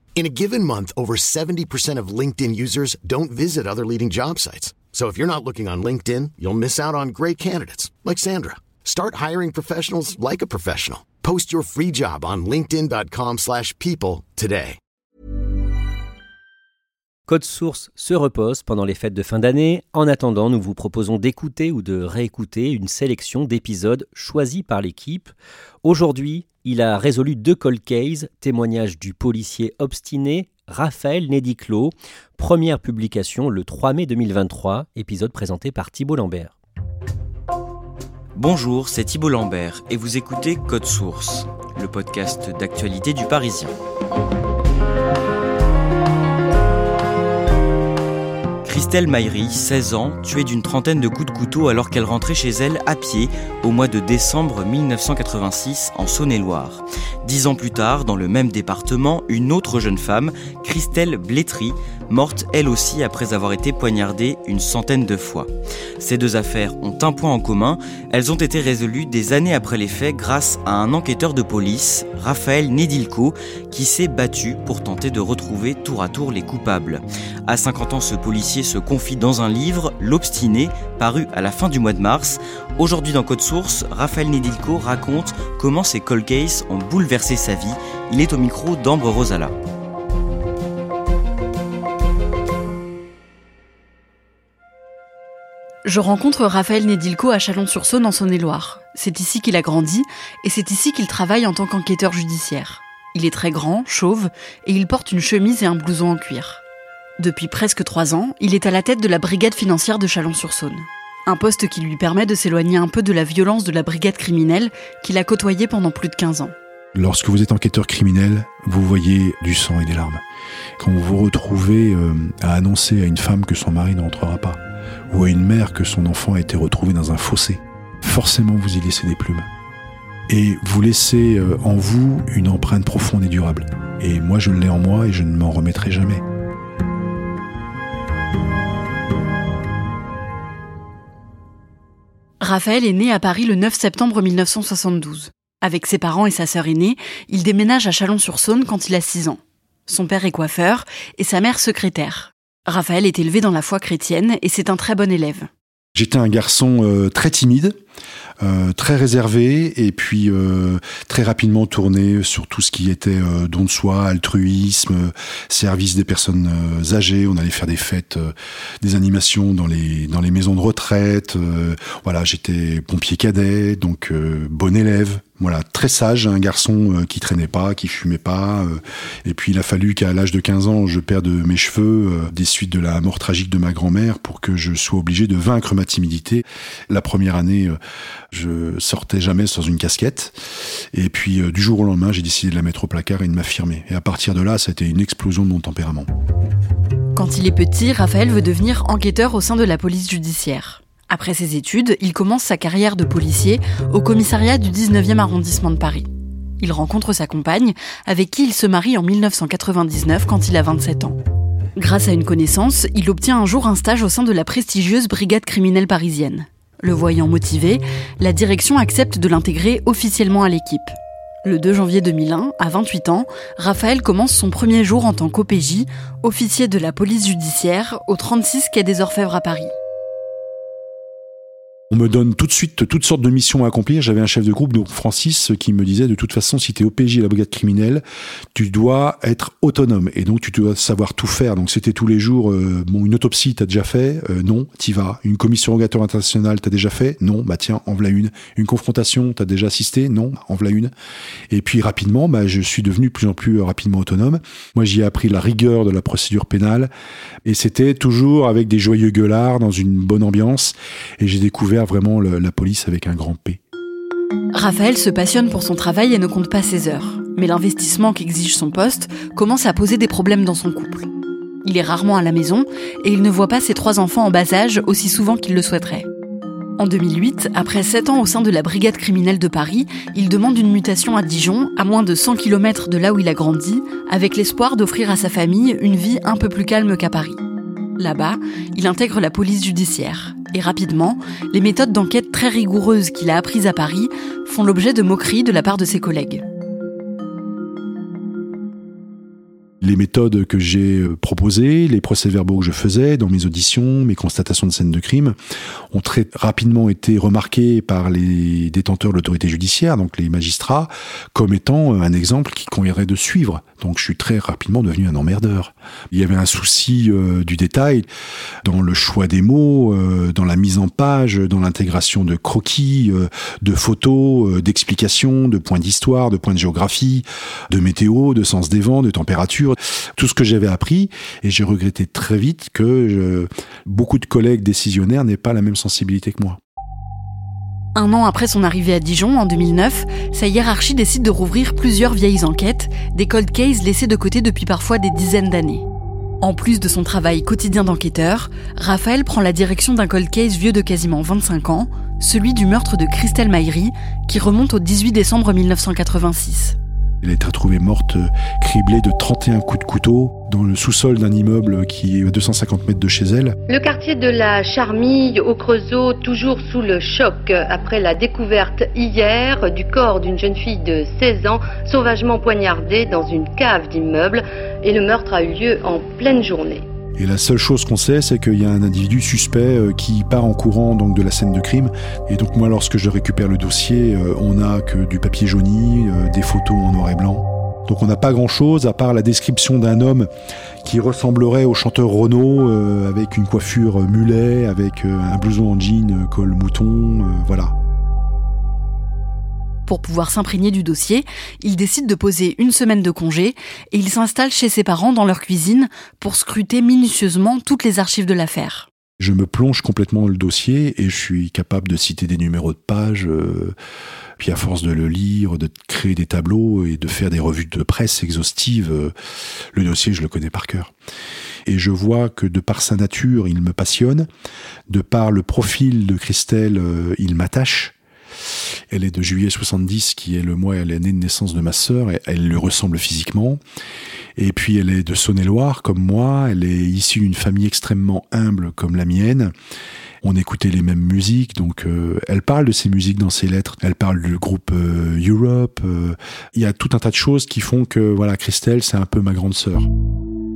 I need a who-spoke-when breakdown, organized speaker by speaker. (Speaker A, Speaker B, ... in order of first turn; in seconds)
Speaker A: 0.1-14.8
Speaker B: 17.3-25.3, 25.8-36.5
Speaker C: 38.4-43.7, 48.6-89.5
Speaker D: 95.8-106.6, 107.2-116.5, 142.4-155.5, 197.1-206.1, 206.6-211.2, 211.8-220.9, 221.4-229.7, 264.5-271.1, 271.6-276.1, 276.8-287.4, 288.0-296.4, 337.9-345.8, 346.4-356.8, 399.9-408.9
Speaker E: 116.9-120.2, 120.8-129.5, 130.3-136.2, 155.9-157.8, 158.4-187.8, 188.3-190.4, 190.9-196.1, 231.9-238.0, 238.5-250.9, 251.5-256.9, 257.4-263.6, 299.8-305.3, 305.9-318.1, 318.6-336.6, 357.2-363.6, 377.1-390.3, 390.8-397.7, 409.2-413.7, 414.4-419.1, 419.7-420.9, 421.6-424.3, 424.9-427.9, 428.9-433.6, 434.4-439.5, 440.2-449.9
Speaker F: 363.7-376.9